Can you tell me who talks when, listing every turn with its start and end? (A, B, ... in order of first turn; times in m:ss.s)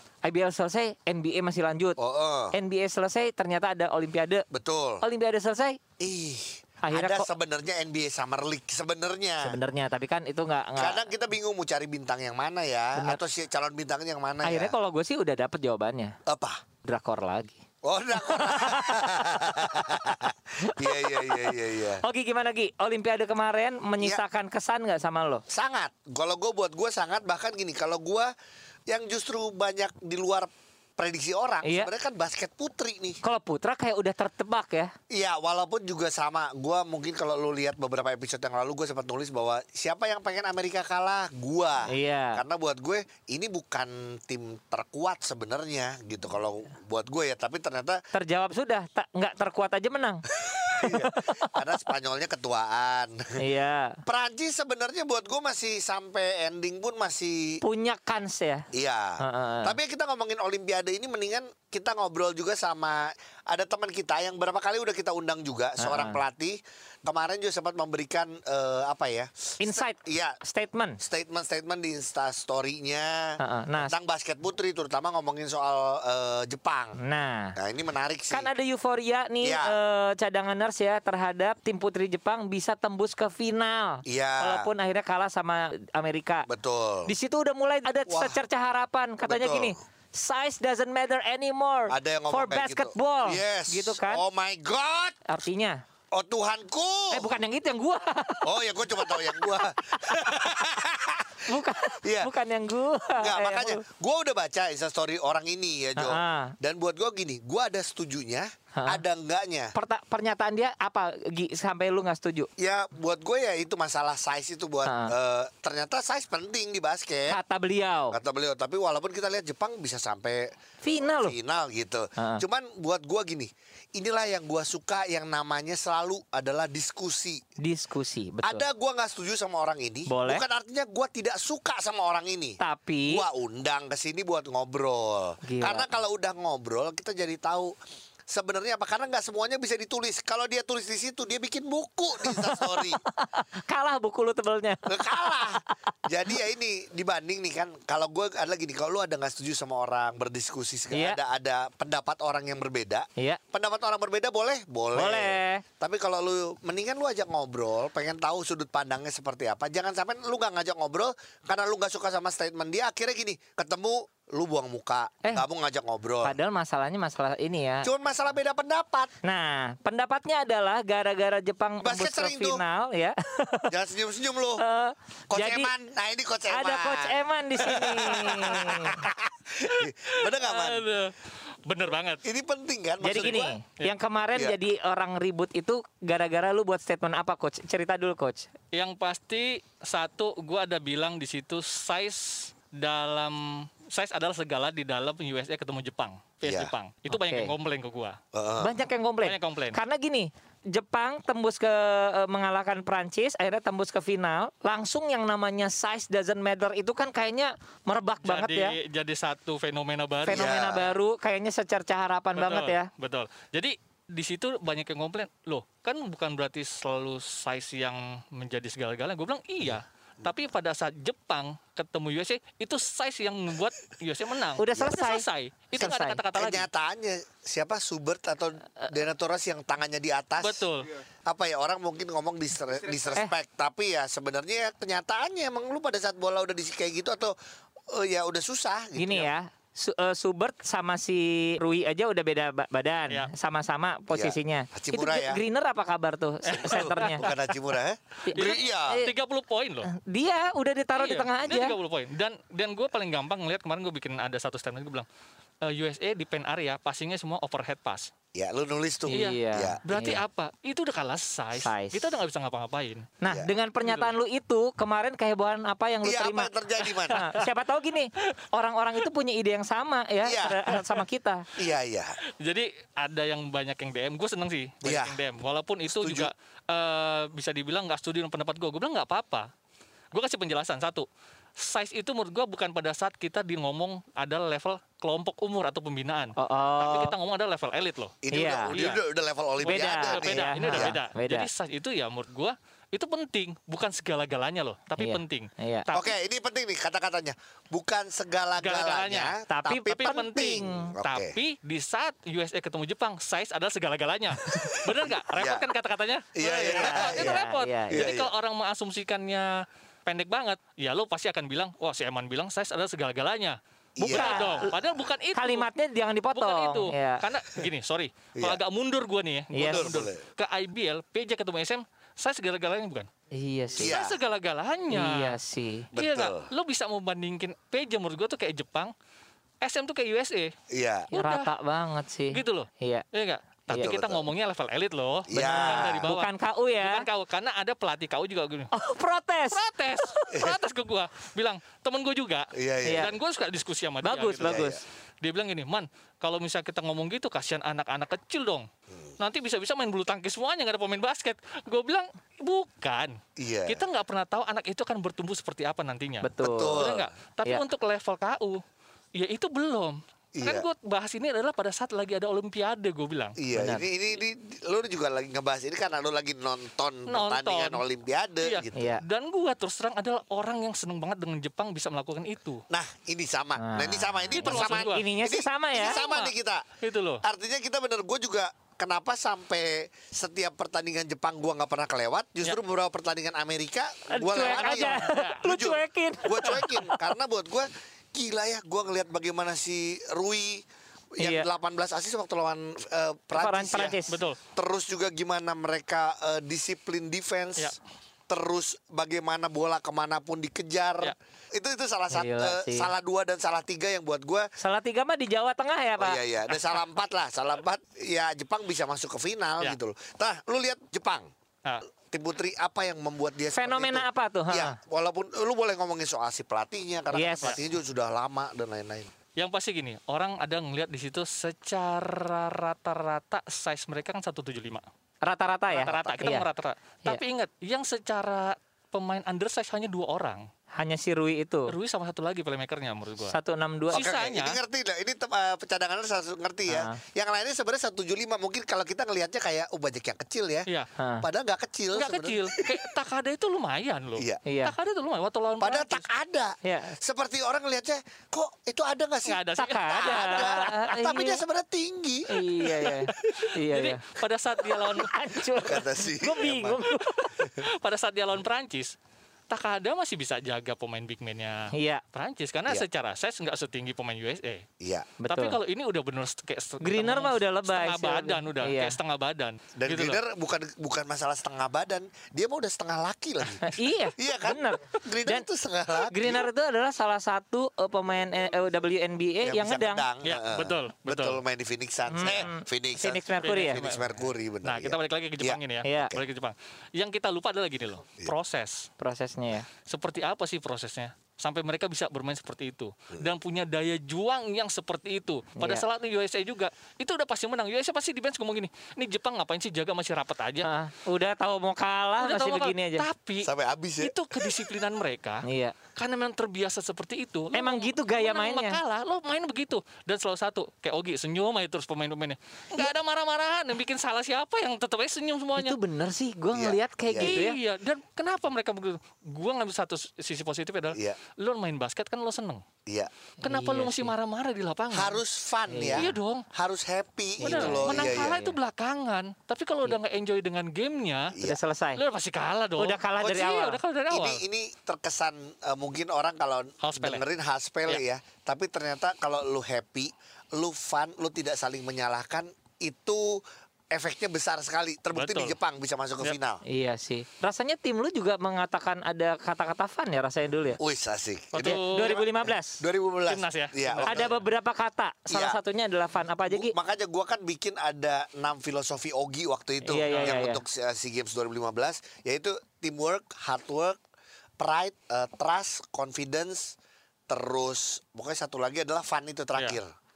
0:00.2-0:02.0 A
0:02.0-0:02.6 B
0:02.5-0:04.4 A
0:04.5-0:05.0 B
0:05.0-0:05.8 A
0:06.0-0:09.6 B
0:06.8-0:07.3 A
0:09.4-0:11.0 A
0:10.8-0:14.8 B
0:13.0-0:13.2 A
0:14.4-0:16.2 A
0:16.3-0:16.6 B
0:16.8-0:17.6 A
0:17.8-0:22.0 B
0:18.2-0:19.9 A
0:20.6-0:25.4 A
0:25.5-0:28.3 B
0:28.9-0:33.2 B
0:31.6-0:31.9 A
0:33.2-0:34.9 A
0:35.1-0:48.0 B
0:41.9-0:42.4 A
0:48.1-0:50.2 A
0:50.4-0:53.4 B
0:50.8-0:51.5 A
0:53.4-0:54.0 A
0:54.1-0:57.6 B
0:57.6-0:58.7 A
0:58.7-1:10.4 B
0:59.2-0:59.8 A
1:05.8-1:06.2 A
1:09.6-1:11.0 A
1:11.0-1:17.0 B
1:13.4-1:13.9 A
1:17.0-1:17.6 A
1:17.6-1:18.5 B
1:18.3-1:26.5 A
1:19.4-1:19.8 B
1:24.1-1:24.7 B
1:26.5-1:27.1 B
1:27.1-1:34.2 A
1:28.1-1:28.4 B
1:29.3-1:29.8 B
1:31.9-1:35.2 B
1:35.3-1:35.8 A
1:36.1-1:37.3 B
1:37.1-1:40.4 A
1:38.4-1:41.4 B
1:41.5-1:43.8 A
1:42.0-1:42.3 B
1:43.2-1:49.7 B
1:46.0-1:46.6 A
1:48.8-1:49.0 A
1:49.7-1:52.5 A
1:52.6-1:57.4 B
1:54.8-1:55.1 A
1:57.3-1:58.2 A
1:58.1-2:07.4 B
2:00.8-2:01.4 A
2:02.2-2:02.4 A
2:07.6-2:08.6 A
2:08.4-2:17.8 B
2:10.1-2:10.4 A
2:12.6-2:13.2 A
2:15.4-2:15.9 A
2:18.3-2:23.0 B
2:22.2-2:25.6 A
2:24.9-2:46.4 B
2:30.9-2:31.2 A
2:35.0-2:35.6 A
2:46.2-2:47.9 A
2:47.8-2:49.1 B
2:49.2-2:53.7 A
2:51.8-2:52.6 B
2:53.7-2:54.6 B
2:54.6-2:55.7 A
2:55.3-3:00.9 B
2:56.5-2:59.1 A
2:59.8-3:02.2 C
3:02.2-3:03.6 B
3:03.0-3:08.5 A
3:03.2-3:03.9 C
3:08.7-3:18.2 C
3:16.4-3:16.7 B
3:17.1-3:17.5 A
3:18.3-3:18.7 B
3:18.6-3:28.8 A
3:19.2-3:19.8 C
3:28.2-3:30.5 C
3:30.3-3:32.9 A
3:30.3-3:30.9 B
3:32.4-3:46.7 C
3:44.6-3:45.2 A
3:45.8-3:46.2 A
3:46.3-3:50.6 B
3:50.4-3:50.9 C
3:51.3-3:57.3 B
3:57.9-3:59.3 B
3:59.0-4:07.2 A
4:04.1-4:05.4 B
4:06.5-4:07.5 C
4:06.5-4:09.0 B
4:08.3-4:09.1 A
4:08.3-4:09.9 C
4:09.9-4:11.8 A
4:11.0-4:15.1 C
4:15.6-4:18.1 C
4:18.4-4:19.8 B
4:19.1-4:20.2 A
4:19.2-4:23.1 C
4:21.6-4:22.1 A
4:23.2-4:31.5 A
4:23.2-4:23.5 B
4:23.8-4:24.1 C
4:26.0-4:27.2 B
4:27.1-4:27.4 C
4:30.2-4:30.6 B
4:31.6-4:32.2 B
4:32.4-4:39.5 C
4:34.8-4:35.2 B
4:35.9-4:36.3 B
4:40.1-4:41.1 C
4:41.6-4:48.2 C
4:46.4-4:47.1 A
4:48.2-4:51.0 B
4:48.3-4:48.8 A
4:48.7-4:49.0 C
4:49.6-4:56.1 C
4:49.6-4:51.5 A
4:55.0-4:55.9 A
4:55.9-5:01.4 B
4:58.6-4:59.4 C
4:59.5-5:00.1 A
4:59.9-5:13.6 C
5:00.6-5:00.9 A
5:05.0-5:05.7 B
5:06.4-5:08.3 B
5:06.6-5:08.1 A
5:14.0-5:14.8 B
5:14.0-5:14.7 A
5:14.1-5:15.7 C
5:15.4-5:17.2 A
5:16.4-5:23.1 C
5:18.4-5:18.6 B
5:19.5-5:20.0 A
5:19.6-5:20.2 B
5:23.3-5:24.0 A
5:23.8-5:24.2 B
5:23.8-5:25.4 C
5:24.9-5:25.9 A
5:25.9-5:26.5 B
5:26.0-5:28.9 C
5:29.6-5:30.5 C
5:30.7-5:31.1 B
5:31.1-5:31.5 C
5:31.1-5:33.0 A
5:32.3-5:36.3 C
5:33.8-5:34.3 B
5:35.3-5:36.1 B
5:35.4-5:37.1 A
5:36.8-5:38.7 C
5:38.7-5:40.4 A
5:39.5-5:44.6 C
5:40.3-5:40.6 B
5:42.5-5:43.2 B
5:42.8-5:43.1 A
5:44.0-5:44.8 A
5:44.4-5:44.8 B
5:45.2-5:48.7 C
5:49.2-5:58.6 C
5:53.4-5:53.8 B
5:56.2-5:56.8 A
5:56.4-5:57.1 B
5:59.2-6:03.4 C
6:00.4-6:00.7 B
6:03.4-6:09.0 B
6:03.6-6:03.9 A
6:07.1-6:07.8 C
6:08.4-6:12.6 C
6:08.8-6:09.0 A
6:12.7-6:16.7 B
6:13.6-6:16.0 A
6:14.4-6:15.0 C
6:15.9-6:16.3 C
6:16.8-6:17.2 C
6:17.2-6:34.0 B
6:24.1-6:27.0 A
6:24.4-6:25.4 C
6:31.2-6:31.5 A
6:33.4-6:34.2 A
6:34.1-6:34.4 C
6:34.6-6:37.8 B
6:38.3-6:44.5 B
6:42.1-6:42.9 A
6:44.6-6:46.2 A
6:46.0-6:51.3 B
6:52.1-6:59.1 B
6:53.5-6:54.8 A
6:57.1-6:57.6 A
6:59.4-7:04.8 C
7:05.2-7:06.5 A
7:05.7-7:10.5 C
7:10.8-7:11.7 A
7:11.7-7:13.4 C
7:13.3-7:14.1 A
7:13.9-7:14.6 C
7:13.9-7:20.7 B
7:16.7-7:17.0 A
7:21.0-7:21.2 A
7:21.2-7:22.8 B
7:21.9-7:26.1 C
7:24.5-7:24.8 A
7:25.6-7:33.0 B
7:26.6-7:27.0 A
7:29.3-7:30.7 C
7:29.6-7:31.4 A
7:32.3-7:34.0 A
7:32.8-7:35.1 C
7:34.7-7:37.4 A
7:35.6-7:36.8 B
7:37.4-7:38.9 C
7:39.5-7:44.7 C
7:41.7-7:42.0 A
7:44.8-7:45.2 B
7:45.2-7:45.6 A
7:45.3-7:50.2 C
7:46.8-7:49.0 A
7:49.8-7:56.5 B
7:53.6-7:55.5 A
7:56.0-8:00.1 A
7:59.4-8:05.6 B
8:00.2-8:01.4 C
8:02.1-8:03.8 A
8:03.4-8:08.9 C
8:05.8-8:06.2 A
8:09.0-8:09.7 A
8:09.8-8:20.7 C
8:15.6-8:15.8 A
8:20.6-8:23.1 A
8:22.2-8:23.5 C
8:23.4-8:24.5 B
8:24.0-8:35.8 C
8:25.4-8:25.8 A
8:27.6-8:28.8 A
8:35.6-8:37.6 A
8:36.5-8:37.4 B
8:37.2-8:42.6 C
8:40.9-8:41.2 B
8:43.4-8:44.1 A
8:43.4-8:45.2 C
8:44.9-8:48.4 B
8:45.7-8:46.1 A
8:46.0-8:46.4 C
8:47.4-8:48.6 A
8:47.4-8:51.4 C
8:51.3-8:51.6 B
8:51.4-8:52.0 A
8:52.0-8:54.4 C
8:52.8-8:53.8 A
8:54.1-9:06.6 B
8:56.8-8:57.2 C
9:05.1-9:05.6 C
9:06.7-9:10.8 A
9:10.8-9:14.3 B
9:11.5-9:12.2 C
9:11.6-9:12.8 A
9:13.3-9:14.3 C
9:14.0-9:16.7 A
9:15.3-9:15.6 B
9:16.5-9:24.0 B
9:19.8-9:20.6 A
9:20.1-9:20.4 C
9:24.6-9:26.8 B
9:27.3-9:29.9 B